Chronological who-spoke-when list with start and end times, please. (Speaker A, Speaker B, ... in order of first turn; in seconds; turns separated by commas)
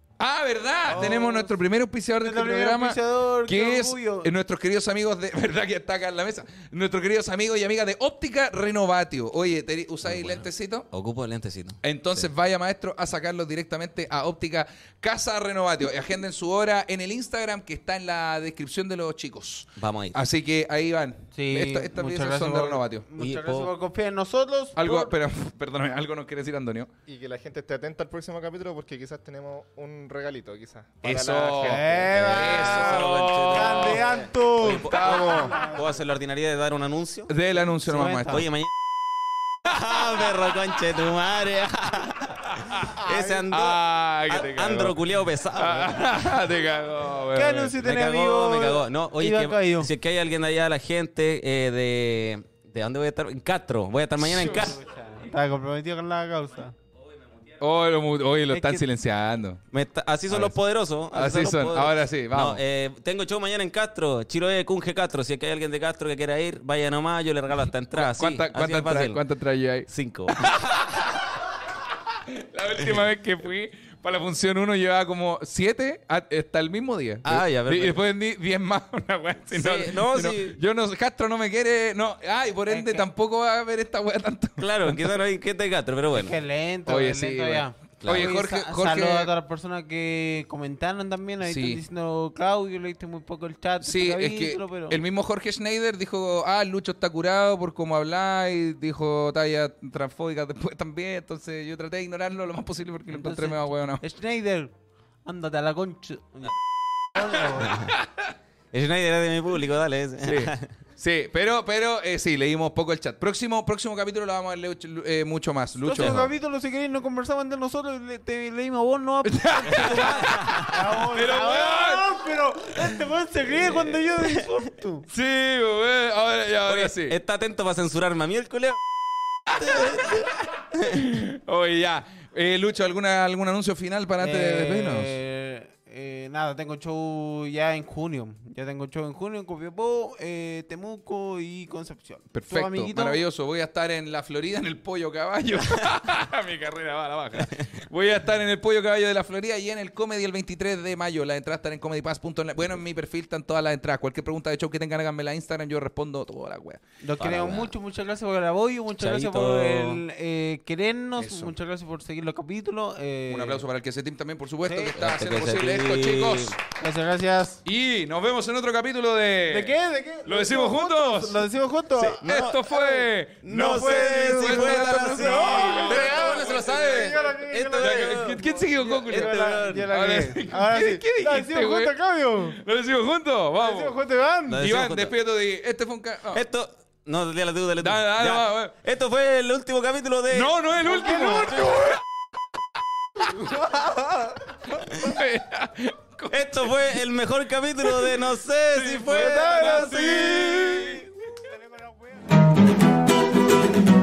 Speaker A: 0.2-10.9, Speaker B: 0.8-1.5, Speaker B: 2.2-4.3, Speaker C: 10.1-11.8, Speaker A: 11.8-23.1, Speaker C: 19.8-20.2, Speaker B: 21.3-25.1, Speaker C: 23.2-23.7, Speaker A: 24.8-26.9, Speaker D: 27.1-32.1, Speaker A: 31.0-34.1, Speaker B: 31.6-36.0, Speaker C: 32.1-37.3, Speaker A: 34.7-35.6, Speaker A: 37.3-38.5, Speaker B: 37.8-38.5, Speaker C: 38.2-38.7, Speaker C: 39.6-46.4, Speaker A: 42.6-42.9, Speaker B: 42.8-43.5, Speaker A: 43.4-45.0, Speaker A: 45.5-47.8, Speaker B: 47.3-49.9, Speaker C: 47.8-54.8, Speaker A: 54.3-54.8, Speaker B: 54.4-56.8, Speaker A: 57.6-59.6, Speaker B: 58.5-58.8, Speaker C: 59.7-69.2, Speaker A: 60.3-60.5, Speaker A: 61.1-62.6, Speaker A: 68.0-71.1, Speaker C: 69.9-70.8, Speaker A: 72.1-85.1, Speaker C: 77.2-78.0, Speaker C: 79.5-80.6, Speaker B: 82.7-83.0, Speaker C: 84.6-86.3, Speaker B: 86.1-95.0, Speaker A: 86.8-89.3, Speaker C: 88.0-88.3, Speaker A: 91.4-91.8, Speaker A: 93.8-104.0, Speaker B: 103.1-104.7, Speaker B: 105.2-107.9, Speaker A: 107.5-108.3, Speaker C: 108.7-110.7, Speaker A: 110.2-116.3, Speaker B: 115.8-125.1, Speaker C: 116.0-116.3, Speaker A: 119.2-122.1, Speaker C: 119.8-120.7, Speaker C: 123.6-124.5, Speaker A: 125.1-127.2, Speaker C: 126.6-128.8, Speaker A: 129.5-130.2, Speaker C: 129.5-131.2, Speaker A: 130.9-135.1, Speaker B: 134.2-143.2, Speaker A: 142.3-156.8, Speaker B: 157.0-163.6, Speaker C: 157.2-157.7, Speaker C: 159.0-160.0, Speaker A: 161.2-161.5, Speaker A: 163.3-166.6, Speaker B: 164.6-165.0, Speaker C: 164.9-166.6, Speaker B: 166.8-167.6, Speaker A: 167.6-171.4, Speaker B: 169.5-182.6, Speaker C: 171.9-172.7, Speaker A: 172.2-177.2, Speaker C: 173.4-178.4, Speaker A: 177.8-179.3, Speaker C: 179.0-179.9, Speaker A: 179.8-181.9, Speaker A: 182.5-184.0, Speaker B: 183.6-184.6, Speaker C: 184.5-185.1, Speaker A: 184.5-186.4, Speaker C: 186.3-190.6, Speaker A: 187.8-188.8, Speaker A: 190.3-192.0, Speaker B: 190.8-192.0, Speaker C: 191.3-191.6, Speaker B: 193.3-194.5, Speaker A: 194.6-196.9, Speaker C: 196.3-200.8, Speaker A: 197.9-198.2, Speaker A: 198.7-201.0, Speaker B: 199.0-202.3